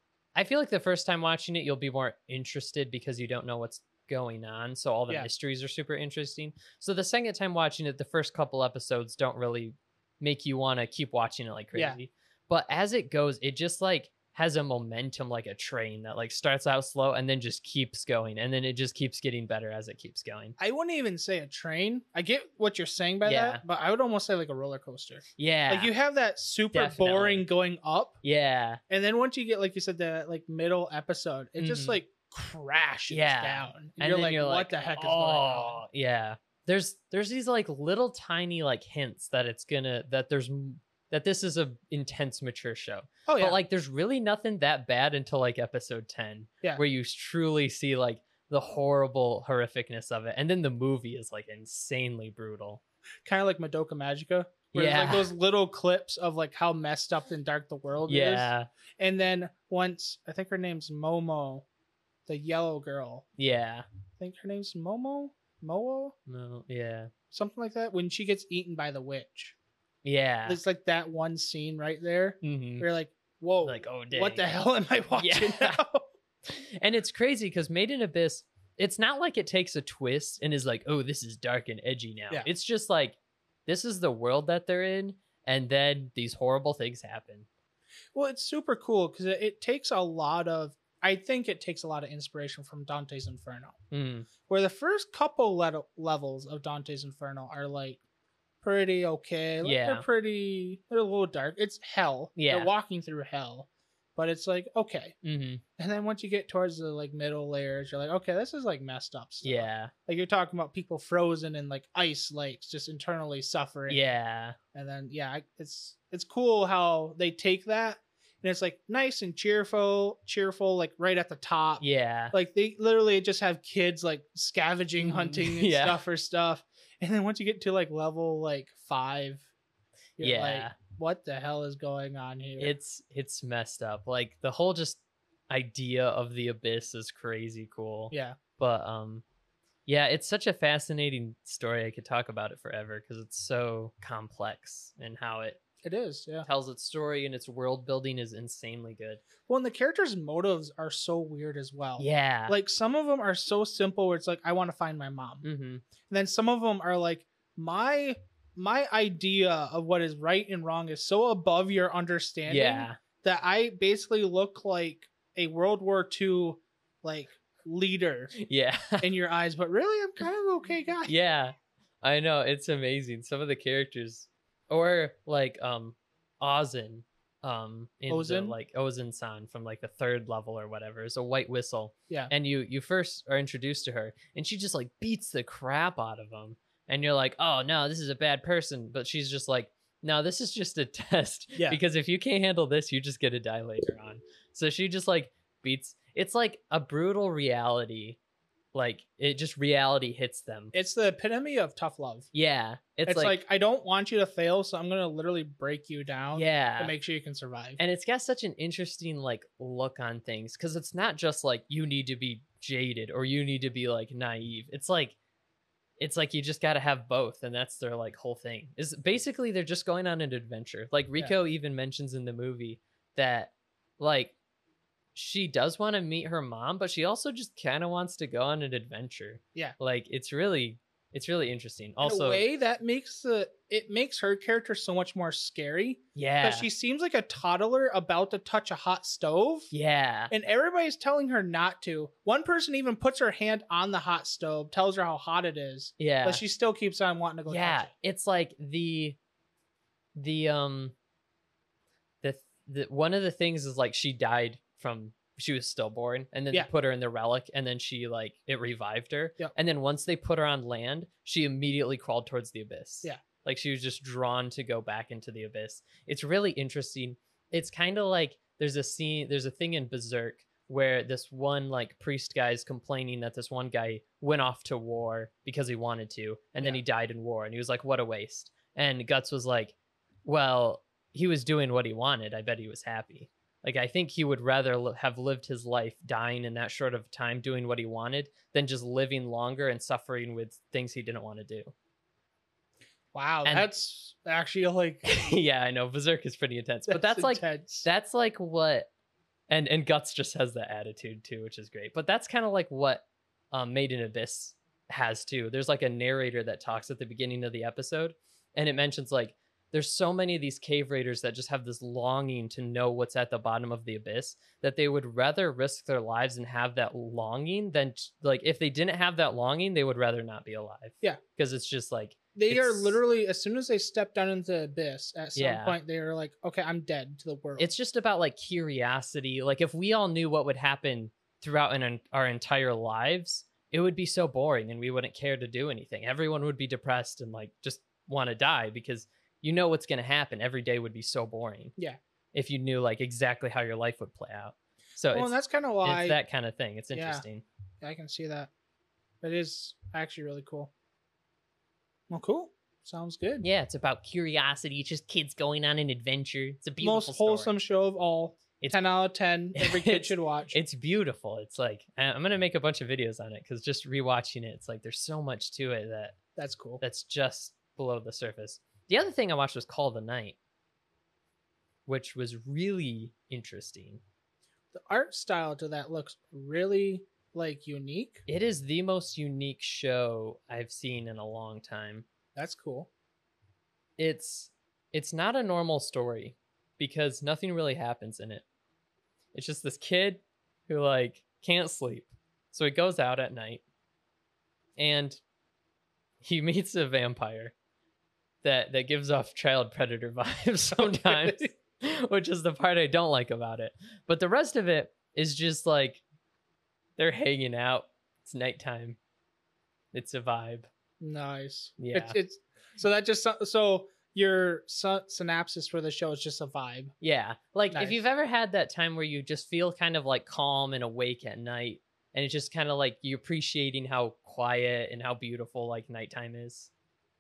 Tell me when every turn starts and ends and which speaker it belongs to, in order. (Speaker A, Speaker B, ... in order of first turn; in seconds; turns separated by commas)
Speaker A: 0.3-20.6, Speaker B: 20.6-28.2, Speaker A: 23.2-23.6, Speaker A: 25.4-25.9, Speaker A: 26.7-27.4, Speaker A: 28.2-28.8, Speaker B: 28.9-35.8, Speaker A: 31.6-32.0, Speaker A: 33.1-52.8, Speaker B: 43.3-43.6, Speaker B: 53.2-61.6, Speaker A: 54.7-55.3, Speaker A: 58.1-58.7, Speaker B: 62.3-63.3, Speaker A: 63.4-63.9, Speaker B: 64.2-66.2, Speaker A: 66.3-67.1, Speaker B: 67.3-69.5, Speaker A: 70.0-70.6, Speaker B: 70.5-76.1, Speaker A: 72.4-72.9, Speaker A: 73.6-74.5, Speaker A: 75.2-75.8, Speaker A: 76.5-87.5, Speaker B: 88.2-93.8, Speaker A: 93.9-94.3, Speaker B: 94.5-98.0, Speaker B: 98.6-105.2, Speaker A: 99.6-100.0, Speaker A: 102.4-102.7, Speaker A: 105.2-105.6, Speaker B: 105.8-114.0, Speaker A: 109.4-109.9, Speaker A: 113.9-114.6, Speaker B: 114.7-129.5, Speaker A: 121.8-122.3, Speaker A: 125.0-126.0, Speaker B: 130.2-132.7, Speaker A: 130.2-130.8, Speaker A: 132.6-139.2, Speaker B: 138.1-138.4, Speaker A: 139.9-145.6, Speaker B: 145.8-146.5, Speaker A: 146.4-149.2, Speaker B: 149.5-155.4, Speaker A: 152.0-152.6, Speaker A: 155.4-155.8, Speaker B: 156.1-168.4, Speaker A: 162.5-163.0, Speaker A: 168.4-169.1, Speaker B: 169.0-171.1, Speaker A: 171.1-198.2, Speaker B: 178.1-178.6, Speaker A: 198.7-200.7, Speaker B: 200.7-202.3, Speaker A: 202.3-203.4, Speaker B: 203.1-207.8, Speaker A: 206.3-206.9, Speaker A: 207.8-215.2, Speaker A: 216.0-224.3, Speaker A: 225.2-232.4, Speaker B: 232.0-239.7, Speaker A: 236.2-236.7, Speaker A: 239.7-240.3, Speaker B: 240.3-247.9, Speaker A: 246.0-246.4, Speaker A: 247.5-249.2, Speaker A: 250.2-250.9, Speaker A: 252.2-291.7, Speaker B: 293.1-295.1, Speaker A: 295.1-298.9, Speaker B: 296.9-297.9, Speaker A: 299.5-323.0, Speaker B: 322.4-327.7, Speaker A: 325.4-325.8, Speaker A: 327.6-341.8, Speaker A: 342.3-347.4, Speaker B: 345.1-346.2, Speaker B: 346.9-347.2, Speaker B: 347.8-348.5, Speaker B: 349.2-350.7, Speaker B: 352.1-353.5, Speaker A: 353.4-357.5, Speaker B: 356.8-360.6, Speaker A: 359.6-366.2, Speaker B: 366.4-366.8, Speaker A: 366.8-370.4, Speaker A: 371.9-374.0, Speaker B: 374.7-378.2, Speaker A: 378.3-382.1, Speaker B: 382.4-382.9, Speaker A: 384.0-388.4, Speaker A: 389.3-393.6, Speaker A: 394.8-395.2, Speaker A: 396.2-397.5, Speaker A: 398.4-406.0, Speaker B: 400.8-401.5, Speaker A: 407.0-409.0, Speaker A: 409.9-410.7, Speaker B: 411.0-416.9, Speaker A: 411.8-412.2, Speaker A: 417.0-426.7, Speaker B: 417.7-418.0